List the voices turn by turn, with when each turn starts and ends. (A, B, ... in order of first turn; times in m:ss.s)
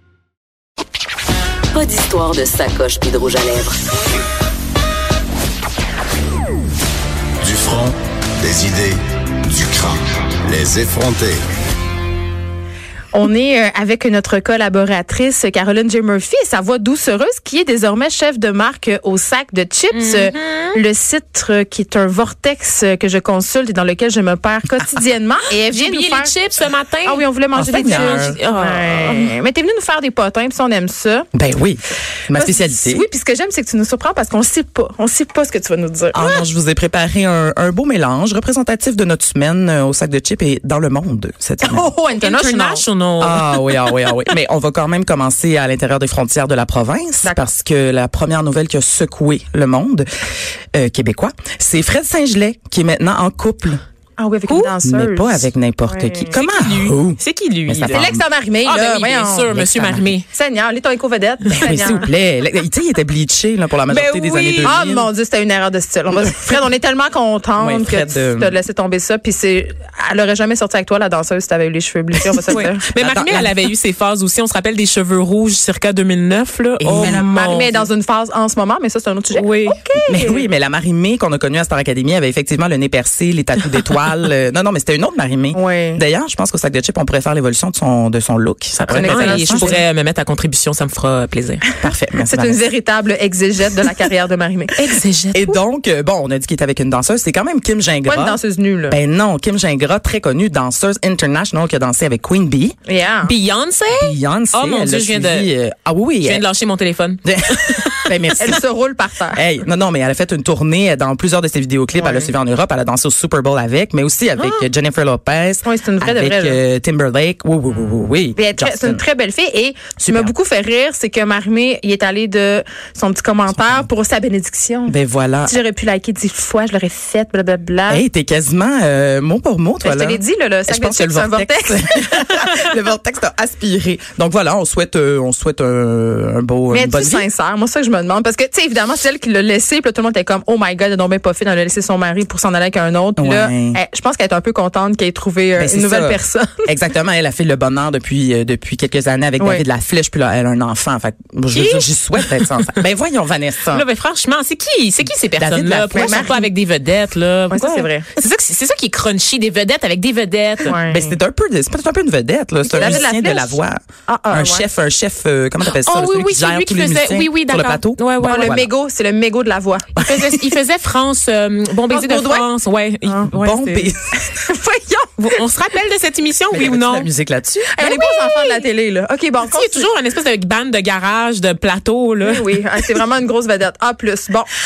0:01.7-0:03.8 A
0:07.4-0:11.4 B
0:13.1-0:26.4 C
0:19.9-0:20.8 D
0:25.7-0:29.3 D
0:27.0-0:31.3 C
0:27.5-0:28.4 E
0:31.3-0:33.1 E
0:32.4-0:36.4 C
0:36.1-0:41.9 E
0:41.6-0:42.8 C
0:42.2-0:43.5 D
0:43.2-0:50.1 E
0:47.2-0:47.5 C
0:50.7-0:53.8 E
0:54.2-0:56.4 C
0:54.5-0:54.7 D
0:54.8-0:58.2 E
0:56.3-0:58.1 D
0:57.9-0:59.5 C
0:58.6-1:00.3 D
0:59.5-1:00.1 E
1:00.3-1:02.1 C
1:01.5-1:05.1 E
1:03.9-1:04.8 D
1:04.6-1:12.9 C
1:07.6-1:08.6 E
1:12.5-1:17.9 D
1:12.5-1:13.5 E
1:16.8-1:17.3 E
1:16.9-1:20.4 C
1:19.3-1:19.8 D
1:20.1-1:29.8 E
1:25.5-1:26.0 C
1:28.8-1:31.8 D
1:28.9-1:29.8 C
1:31.8-1:32.6 E
1:32.2-1:34.8 C
1:34.8-1:35.6 D
1:35.3-1:42.8 E
1:38.1-1:39.0 C
1:42.9-1:43.3 C
1:43.2-1:45.5 D
1:44.0-1:46.5 E
1:46.2-1:48.1 D
1:47.2-1:48.6 E
1:48.4-1:49.4 C
1:49.3-1:59.0 E
1:52.0-1:52.3 C
1:55.6-1:56.6 C
1:58.4-2:08.0 C
2:00.0-2:00.3 E
2:03.5-2:03.8 E
2:04.9-2:05.6 E
2:07.9-2:17.3 E
2:09.8-2:12.0 C
2:16.7-2:26.6 C
2:23.2-2:23.8 E
2:25.6-2:33.9 E
2:31.5-2:32.7 D
2:33.7-2:40.8 D
2:35.4-2:36.3 E
2:35.9-2:36.5 C
2:37.5-2:38.1 C
2:40.6-2:41.2 C
2:40.7-2:48.7 E
2:42.7-2:44.7 C
2:42.7-2:43.1 D
2:45.6-2:48.6 D
2:48.2-2:49.9 C
2:50.0-2:50.6 E
2:50.0-2:53.9 D
2:51.9-2:52.5 C
2:53.3-2:54.2 E
2:54.2-2:55.4 C
2:55.3-2:57.1 D
2:56.5-2:57.8 E
2:57.7-2:59.9 C
2:57.8-2:58.7 D
2:59.4-3:02.6 D
3:02.2-3:04.5 C